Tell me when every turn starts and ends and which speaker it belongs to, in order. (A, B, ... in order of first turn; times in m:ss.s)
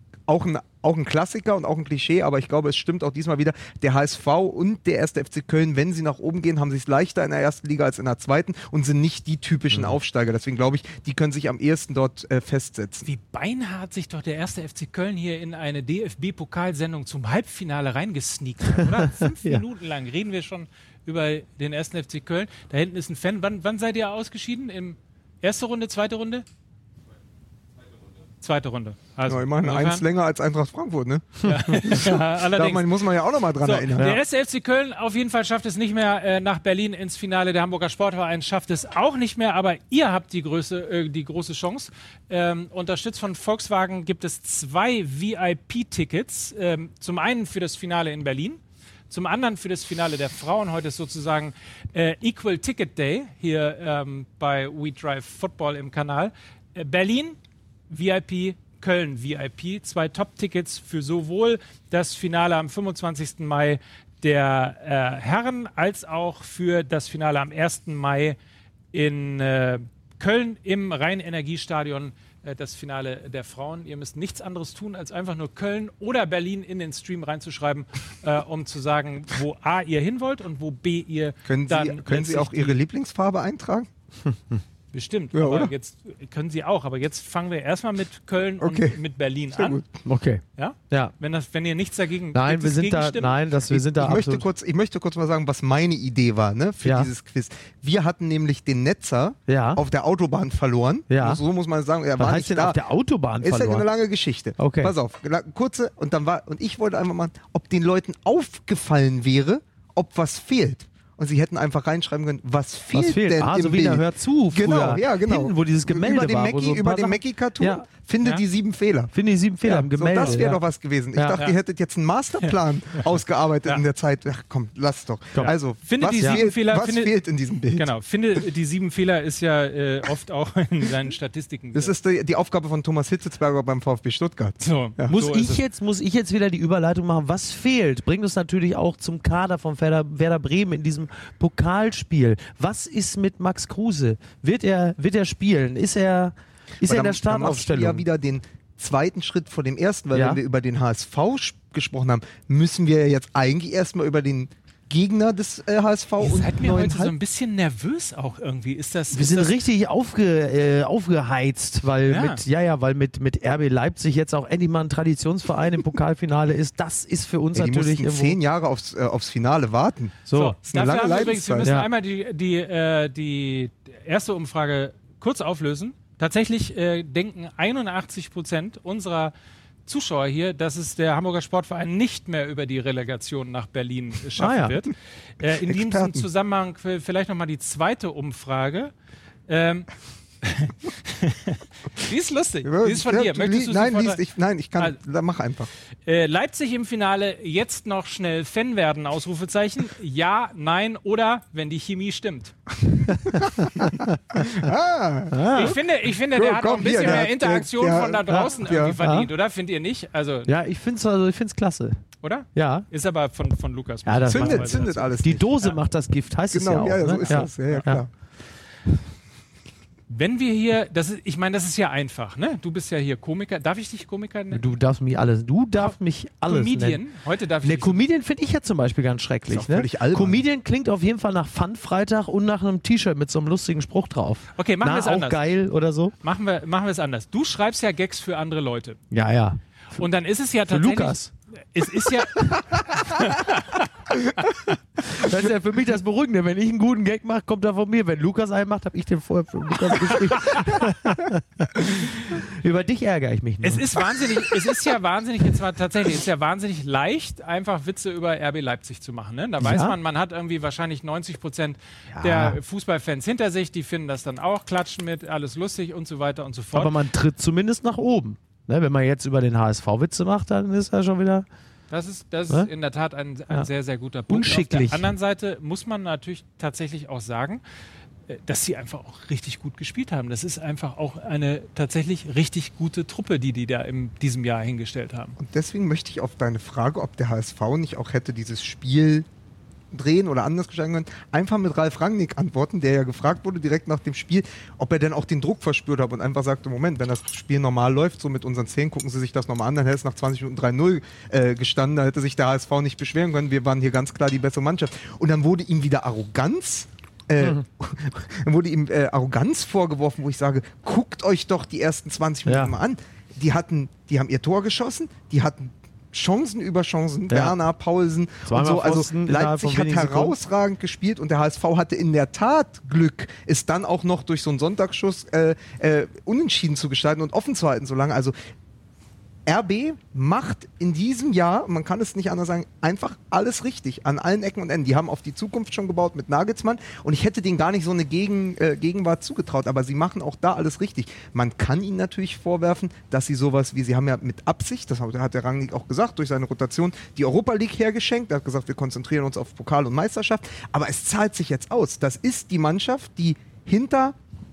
0:00.3-0:13.1 A
0:13.0-0:26.4 B
0:18.8-0:19.6 C
0:28.4-0:30.0 B
0:29.3-0:34.1 A
0:31.4-0:32.9 B
0:33.6-0:57.4 B
0:57.9-1:08.4 B
1:08.9-1:22.8 B
1:21.4-1:23.9 A
1:24.9-1:29.8 B
1:25.3-1:25.7 A
1:28.6-1:29.0 A
1:29.5-1:30.0 A
1:30.0-1:31.1 C
1:30.6-1:33.3 B
1:32.3-1:34.5 C
1:33.7-1:42.8 A
1:36.8-1:37.1 C
1:39.5-1:39.8 C
1:41.1-1:41.4 C
1:42.2-1:43.9 C
1:43.4-1:59.1 A
1:44.6-1:44.9 C
1:52.9-1:57.8 C
1:59.1-2:00.6 C
1:59.6-2:07.9 A
2:05.4-2:07.1 B
2:07.7-2:11.9 B
2:11.7-2:15.2 A
2:14.6-2:15.6 B
2:15.1-2:28.0 C
2:26.8-2:37.1 A
2:30.1-2:30.4 C
2:36.2-2:39.5 B
2:39.1-2:48.4 C
2:42.1-2:42.4 B
2:47.5-2:51.7 A
2:50.3-2:50.5 C
2:50.3-2:59.3 B
2:51.6-2:51.9 C
2:59.8-3:08.9 B
3:04.4-3:04.8 C
3:05.7-3:06.2 A
3:09.5-3:09.9 B
3:10.4-3:14.2 B
3:12.6-3:15.7 A
3:16.0-3:22.5 B
3:23.1-3:25.4 A
3:23.1-3:24.7 C
3:25.3-3:25.8 C
3:25.5-3:30.5 B
3:26.3-3:29.0 A
3:28.3-3:29.3 C
3:30.5-3:32.0 C
3:32.2-3:35.1 B
3:32.5-3:32.9 C
3:34.0-3:38.0 C
3:34.3-3:35.5 A
3:36.5-3:38.1 A
3:40.1-3:44.6 B
3:44.5-3:47.0 C
3:46.4-3:48.0 B
3:47.6-3:56.1 C
3:49.5-3:50.4 A
3:54.6-3:55.4 B
3:56.2-3:59.0 B
3:59.1-4:00.0 C
4:00.0-4:01.2 B
4:00.7-4:01.3 C
4:01.7-4:03.9 B
4:05.0-4:13.9 C
4:10.3-4:10.6 B
4:13.6-4:26.9 B
4:19.6-4:20.0 C
4:22.1-4:22.6 C
4:26.7-4:31.4 C
4:31.9-4:37.6 B
4:34.3-4:35.1 C
4:38.3-4:45.4 B
4:45.4-4:49.2 A
4:49.9-5:28.3 A
5:12.4-5:12.7 C
5:17.3-5:17.6 C
5:18.5-5:20.4 C
5:29.4-5:54.1 A